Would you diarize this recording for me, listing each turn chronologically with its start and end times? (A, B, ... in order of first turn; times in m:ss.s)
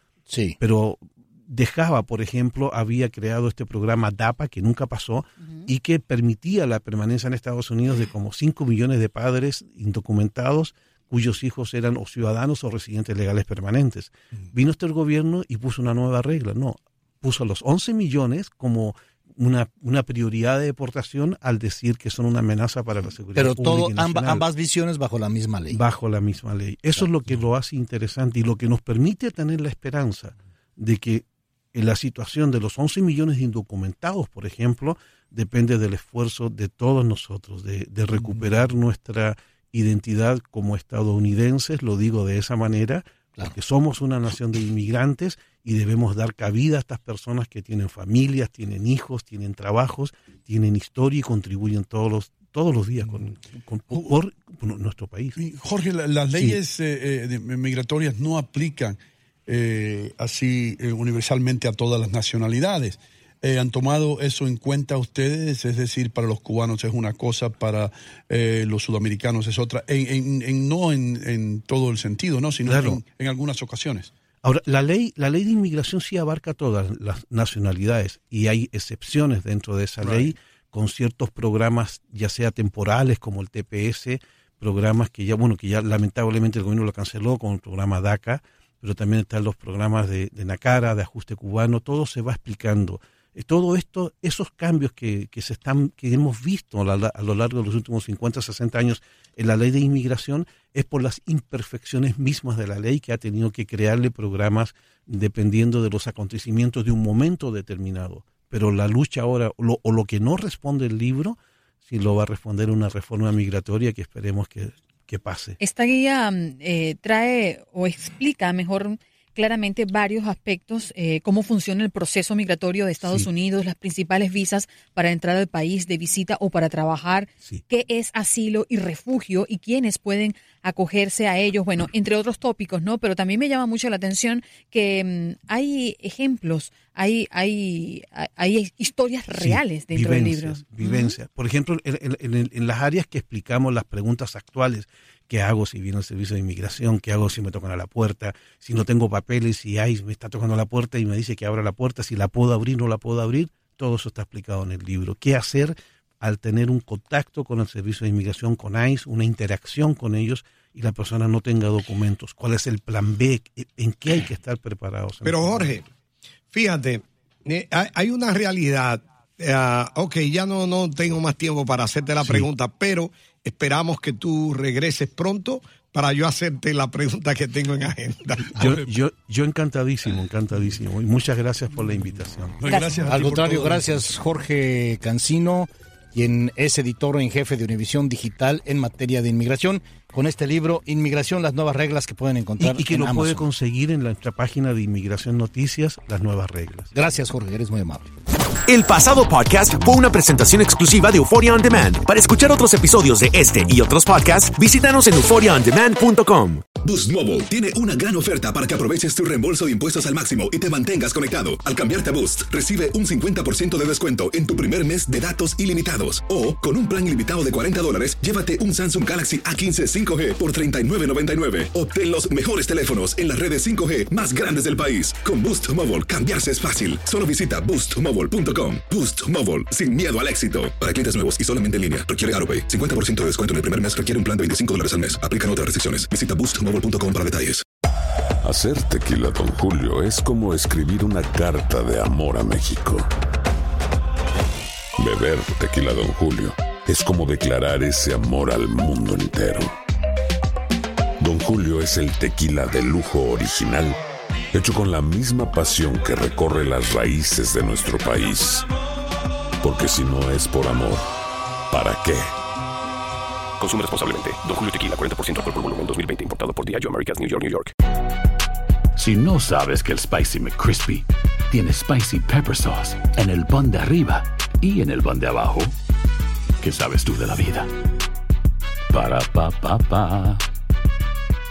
0:00.3-0:00.6 A
0:00.6-0:24.4 B
0:23.3-0:25.8 A
0:25.7-0:55.4 B
0:55.4-1:14.1 C
1:12.6-1:13.0 B
1:14.4-1:55.6 B
1:20.0-1:20.3 C
1:55.6-2:21.2 D
2:03.0-2:03.3 B
2:19.3-2:45.7 B
2:45.2-2:45.8 E
2:46.5-2:58.4 E
2:52.2-2:52.5 B
2:58.4-2:58.9 C
2:58.5-3:02.6 B
3:02.6-3:04.1 C
3:03.1-3:13.4 A
3:12.6-3:16.9 B
3:16.9-3:18.0 A
3:18.8-3:26.6 F
3:26.8-3:57.6 G
3:58.4-4:03.1 H
4:05.0-4:09.7 H
4:11.2-4:14.0 H
4:14.5-4:18.7 H
4:19.6-4:21.1 H
4:21.7-4:22.3 H
4:23.6-4:27.7 I
4:29.0-4:35.7 J
4:36.6-4:37.7 J
4:38.9-4:40.4 J